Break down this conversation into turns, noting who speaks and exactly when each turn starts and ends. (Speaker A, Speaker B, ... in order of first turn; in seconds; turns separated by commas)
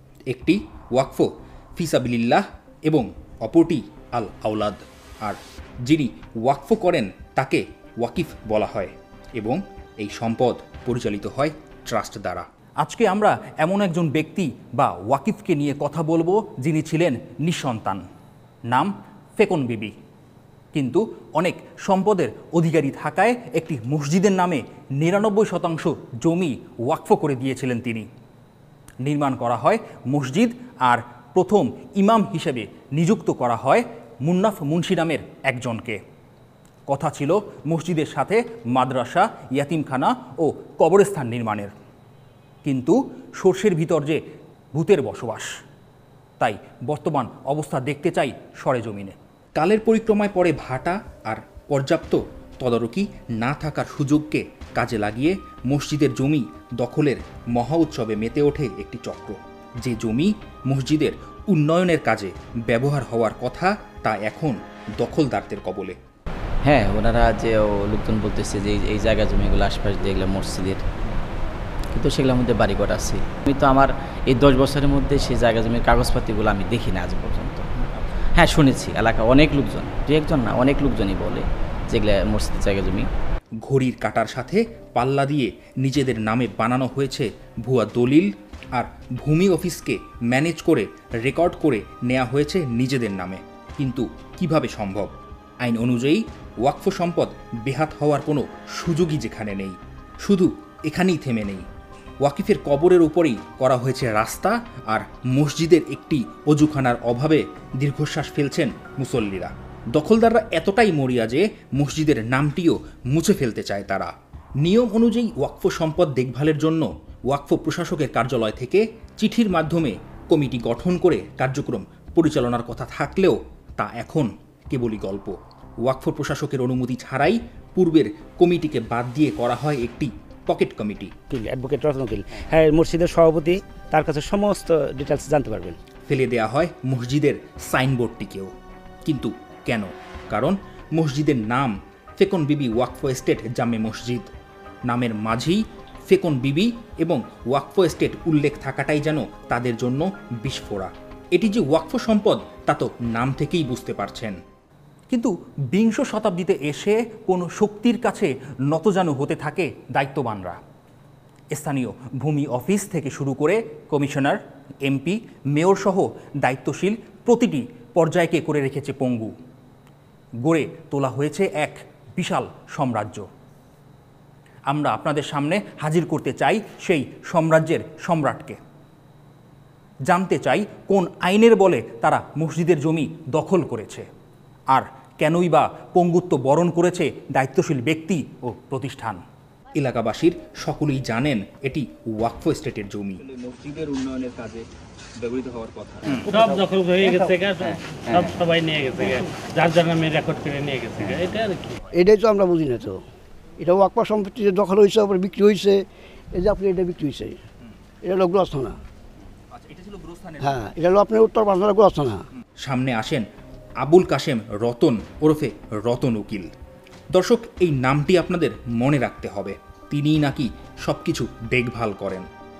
Speaker A: 0.3-18.0, Speaker A: 18.7-19.9, Speaker A: 20.7-28.1, Speaker A: 29.0-36.0, Speaker A: 36.9-41.7, Speaker A: 42.6-44.2, Speaker A: 44.7-45.5, Speaker A: 46.4-66.0, Speaker B: 66.6-70.8, Speaker B: 71.9-77.7, Speaker B: 78.3-83.1, Speaker A: 83.6-101.7, Speaker A: 102.2-114.1, Speaker A: 114.6-131.1, Speaker C: 131.3-132.2, Speaker D: 131.5-135.3, Speaker C: 135.0-135.8, Speaker A: 136.1-138.5, Speaker A: 139.0-144.3, Speaker A: 144.9-154.4, Speaker A: 155.1-160.6, Speaker A: 161.5-169.3, Speaker A: 170.4-173.3, Speaker A: 174.7-178.6, Speaker A: 180.1-184.1, Speaker A: 184.7-189.2, Speaker A: 189.7-194.6, Speaker A: 195.2-196.4, Speaker E: 196.3-201.8, Speaker C: 201.9-203.0, Speaker C: 203.6-205.8, Speaker C: 206.3-207.3, Speaker C: 208.0-208.8, Speaker A: 209.5-210.7, Speaker C: 210.4-212.2, Speaker A: 212.6-213.2, Speaker A: 213.8-216.5, Speaker A: 217.1-222.2